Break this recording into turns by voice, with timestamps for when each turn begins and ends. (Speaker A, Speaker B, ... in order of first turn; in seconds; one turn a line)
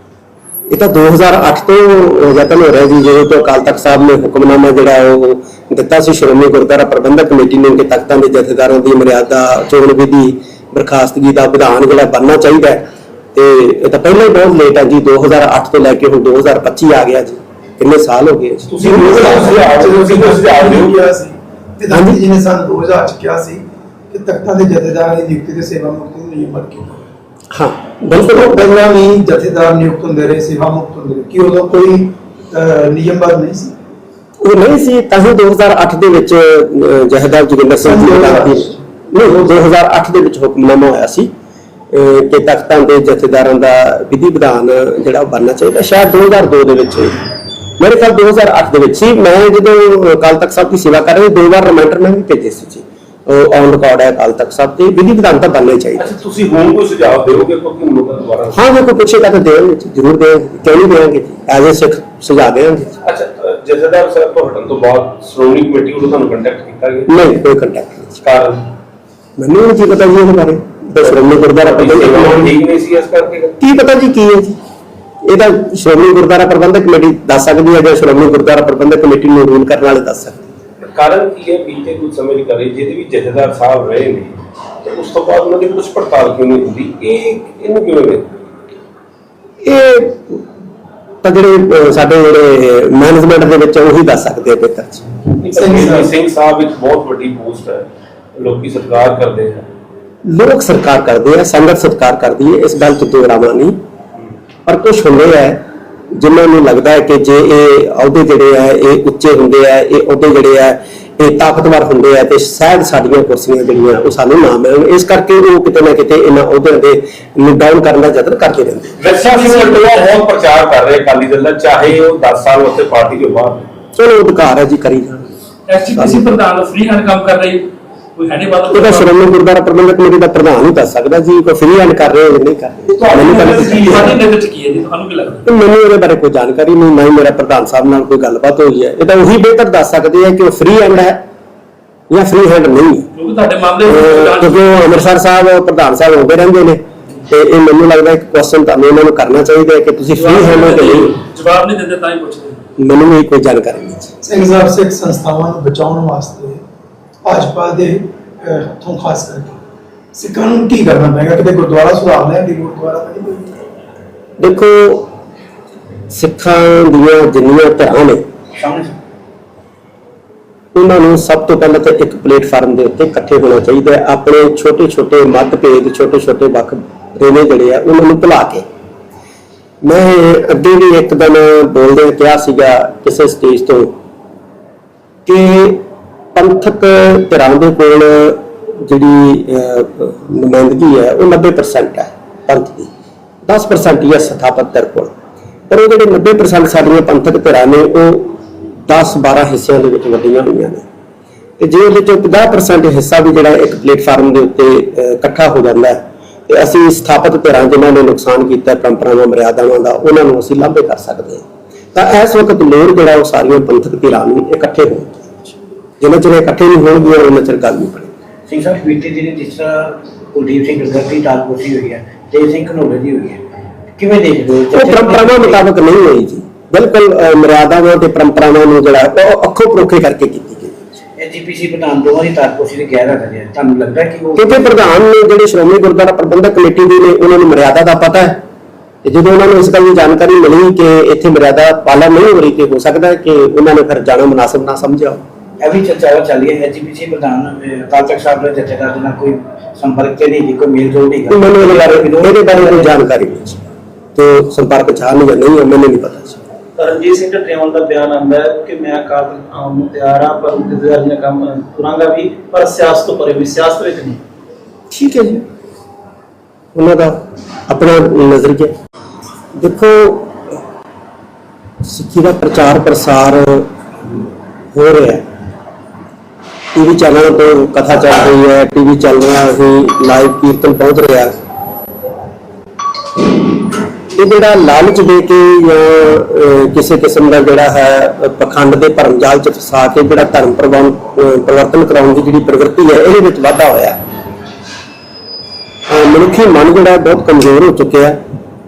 Speaker A: 0.7-19.5
Speaker B: 18.7-21.1
Speaker C: 18.9-27.1
Speaker A: 21.9-22.2
Speaker A: 27.5-28.6
Speaker C: 28.2-33.7
Speaker A: 34.4-41.3
Speaker C: 37.8-38.8
Speaker A: 41.9-47.2
Speaker A: 47.8-56.0
Speaker B: 56.0-58.6
Speaker A: 58.5-63.0
Speaker B: 63.0-67.1
Speaker A: 67.1-68.2
Speaker B: 68.2-68.7
Speaker A: 69.4-72.5
Speaker B: 71.0-73.6
Speaker A: 73.6-74.6
Speaker A: 75.2-80.5
Speaker B: 80.8-88.3
Speaker A: 89.6-90.4
Speaker A: 91.2-95.0
Speaker B: 95.4-99.7
Speaker C: 95.5-96.1
Speaker A: 100.2-103.8
Speaker A: 104.7-119.0
Speaker B: 119.0-123.7
Speaker D: 119.0-120.2
Speaker A: 124.0-125.3
Speaker D: 125.7-129.2
Speaker A: 125.9-126.2
Speaker A: 128.7-134.2
Speaker B: 132.9-134.2
Speaker D: 133.8-135.5
Speaker A: 135.4-141.2
Speaker A: 142.1-143.1
Speaker D: 143.2-144.9
Speaker A: 143.8-151.1
Speaker D: 150.2-152.6
Speaker A: 152.8-154.1
Speaker C: 154.2-156.6
Speaker C: 157.2-159.6
Speaker C: 160.1-163.5
Speaker A: 164.4-165.1
Speaker A: 166.1-168.2
Speaker E: 168.5-168.9
Speaker A: 170.7-178.7
Speaker A: 179.8-183.9
Speaker A: 185.2-192.9
Speaker A: 193.4-195.1
Speaker A: 195.7-200.8
Speaker A: 201.6-215.3
Speaker A: 216.0-218.1
Speaker E: 218.5-225.6
Speaker A: 224.7-230.8
Speaker E: 231.2-234.8
Speaker A: 234.4-238.4
Speaker A: 239.0-245.2
Speaker E: 245.6-252.9
Speaker A: 251.3-253.6
Speaker A: 254.2-256.4
Speaker F: 256.8-264.2
Speaker A: 264.9-265.4
Speaker A: 266.7-268.7
Speaker A: 269.5-270.4
Speaker A: 271.8-273.7
Speaker A: 274.7-275.2
Speaker A: 276.7-281.3
Speaker A: 284.1-294.0
Speaker A: 295.9-298.2